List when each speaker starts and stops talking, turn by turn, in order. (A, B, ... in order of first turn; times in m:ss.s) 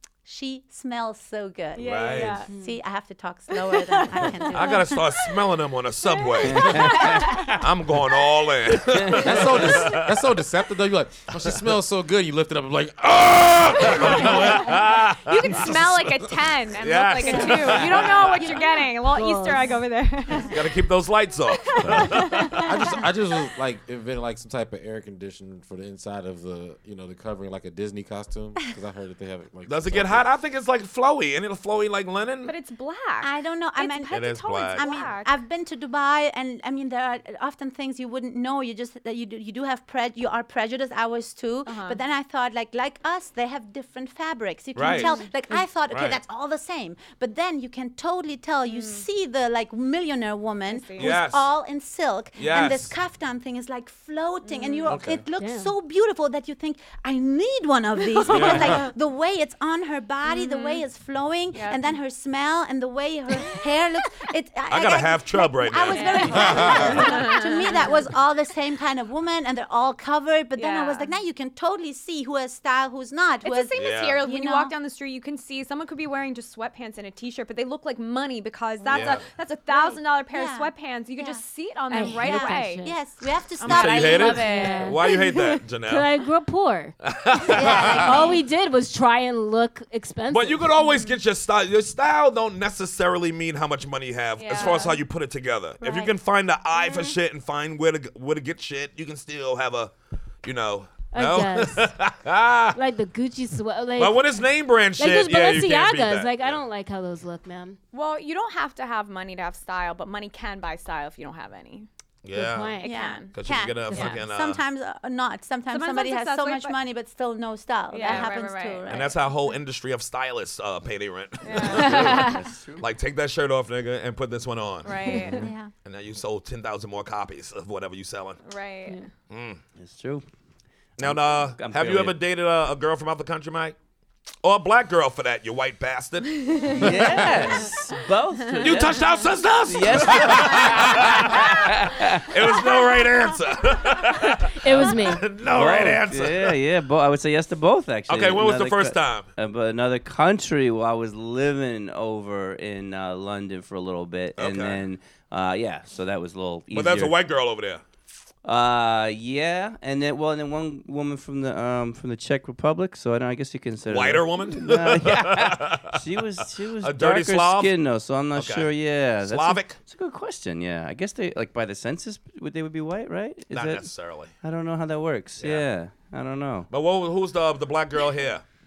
0:00.2-0:05.0 A
0:01.7-0:02.5 B
0:01.8-0:02.4 C
0:02.3-0:02.7 D
0:03.7-0:04.5 B
0:04.5-0:10.2 C
0:06.1-0:07.4 B
0:06.4-0:07.5 E
0:08.7-0:09.7 E
0:09.2-0:14.8 F
0:13.5-0:16.1 C
0:14.0-0:20.7 B
0:16.8-0:18.4 C
0:17.2-0:19.8 D
0:17.3-0:17.8 A
0:18.4-0:18.8 A
0:20.5-0:23.0 C
0:21.6-0:23.0 B
0:22.6-0:30.3 F
0:29.7-0:32.5 C
0:32.4-0:35.3 B
0:33.2-1:14.7 A
0:34.1-0:34.9 C
0:41.6-0:42.0 B
0:44.8-0:45.2 C
0:44.9-0:45.3 B
0:45.9-0:46.2 C
0:48.7-0:49.0 B
0:50.7-0:51.2 B
0:51.0-0:51.5 C
0:52.4-0:52.9 C
0:54.4-0:55.0 B
0:54.9-0:55.2 F
0:55.4-0:55.7 D
0:58.2-0:58.8 C
0:58.2-0:58.9 B
1:00.2-1:00.8 B
1:01.5-1:02.0 B
1:04.7-1:07.0 C
1:05.9-1:08.0 B
1:06.4-1:06.9 F
1:10.6-1:11.1 B
1:13.4-1:22.8 B
1:13.8-1:14.2 C
1:18.8-1:21.4 A
1:18.9-1:19.2 C
1:21.9-1:23.0 D
1:22.1-1:24.6 A
1:23.6-1:25.5 B
1:23.6-1:26.1 C
1:24.2-1:25.2 D
1:25.8-1:27.0 D
1:27.0-1:28.2 C
1:27.5-1:28.4 A
1:27.6-1:30.8 D
1:30.3-1:39.9 C
1:34.4-1:35.0 B
1:35.8-1:36.1 A
1:40.4-1:42.8 C
1:41.1-1:41.9 D
1:42.7-1:44.4 D
1:44.0-1:46.6 C
1:44.9-1:47.8 D
1:47.9-1:51.9 B
1:52.2-1:54.6 C
1:52.3-1:53.0 D
1:52.8-1:53.3 B
1:52.8-1:59.2 A
1:53.9-1:54.2 D
1:55.7-1:56.8 B
1:57.9-1:59.1 B
1:58.8-2:05.0 C
2:01.4-2:02.2 B
2:01.7-2:02.8 E
2:01.9-2:02.4 D
2:04.8-2:05.5 B
2:05.2-2:05.7 A
2:05.8-2:08.4 C
2:08.4-2:09.1 B
2:09.3-2:09.6 C
2:09.8-2:10.2 E
2:11.0-2:13.8 C
2:11.0-2:12.2 E
2:14.4-2:16.8 C
2:16.4-2:17.1 B
2:16.8-2:19.0 E
2:18.6-2:21.7 C
2:19.7-2:22.6 E
2:22.3-2:26.6 C
2:24.6-2:25.3 D
2:25.4-2:37.1 E
2:28.1-2:29.3 C
2:34.4-2:34.8 C
2:36.7-2:37.8 C
2:38.4-2:53.9 E
2:43.8-2:46.0 C
2:46.8-2:47.7 C
2:48.3-2:49.8 C
2:53.5-2:54.3 C
2:54.4-2:56.7 E
2:55.4-2:55.6 C
2:56.7-2:58.4 C